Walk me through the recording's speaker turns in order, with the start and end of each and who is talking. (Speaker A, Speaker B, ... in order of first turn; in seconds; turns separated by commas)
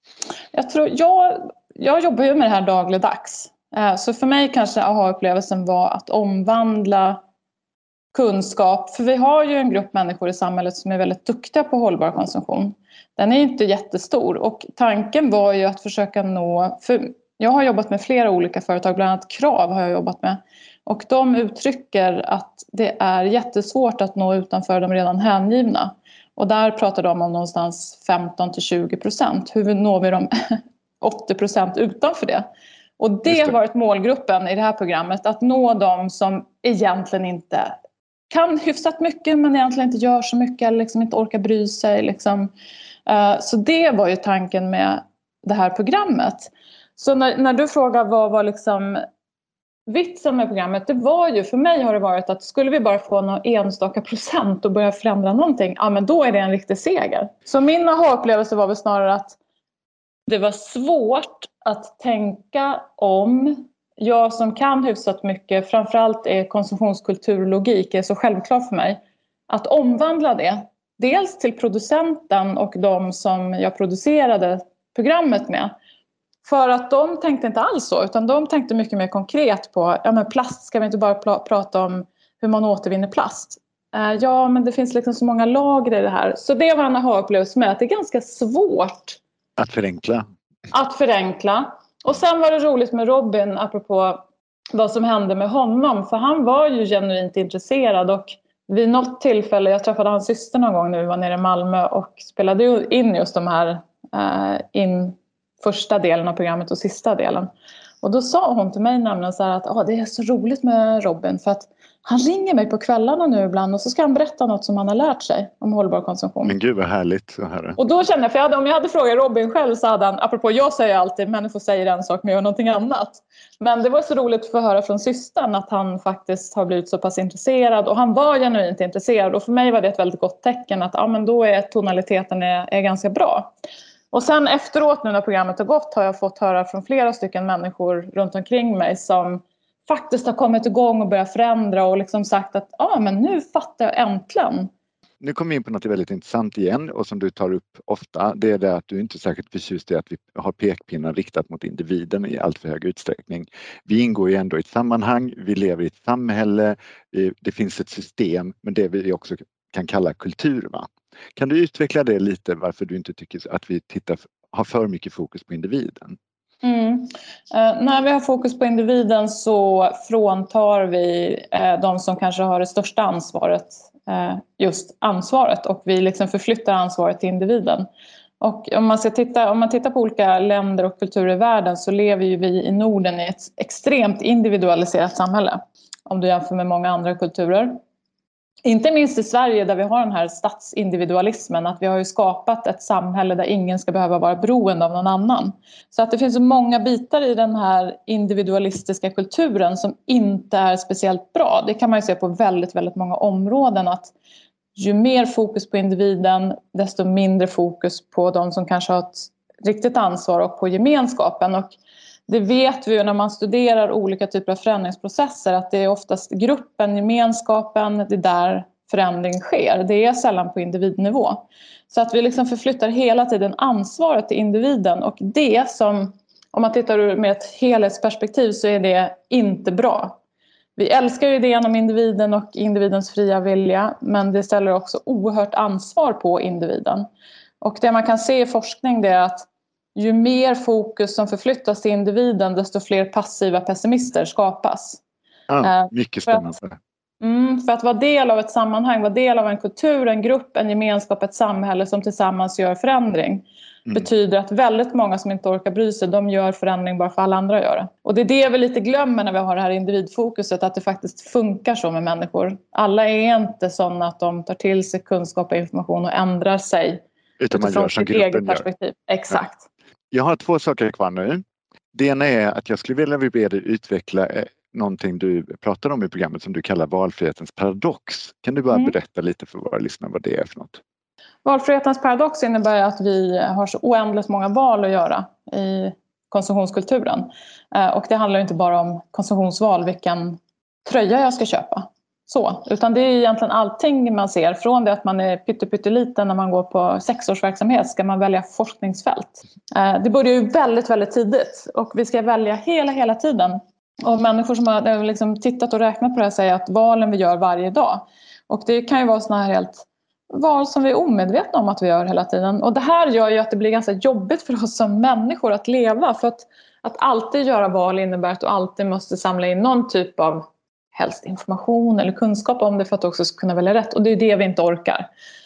Speaker A: 0.5-7.2, Speaker A: 8.1-32.5, Speaker A: 33.0-37.7, Speaker B: 33.3-33.6, Speaker A: 38.3-42.5, Speaker A: 43.0-49.0, Speaker A: 49.9-59.4, Speaker A: 60.3-75.7, Speaker A: 76.4-89.2, Speaker B: 89.6-90.3, Speaker A: 90.7-107.5, Speaker A: 108.0-116.5, Speaker B: 116.4-117.8, Speaker A: 117.8-133.5, Speaker A: 134.1-144.7, Speaker B: 145.2-166.2, Speaker A: 166.6-177.9, Speaker A: 178.4-187.8, Speaker A: 188.6-204.1, Speaker A: 204.8-211.8, Speaker A: 212.3-230.2, Speaker A: 230.8-237.1, Speaker A: 237.6-245.0, Speaker B: 245.5-246.8, Speaker A: 245.6-246.5, Speaker A: 247.2-269.6, Speaker B: 267.4-268.6, Speaker B: 270.1-280.8, Speaker A: 281.4-325.1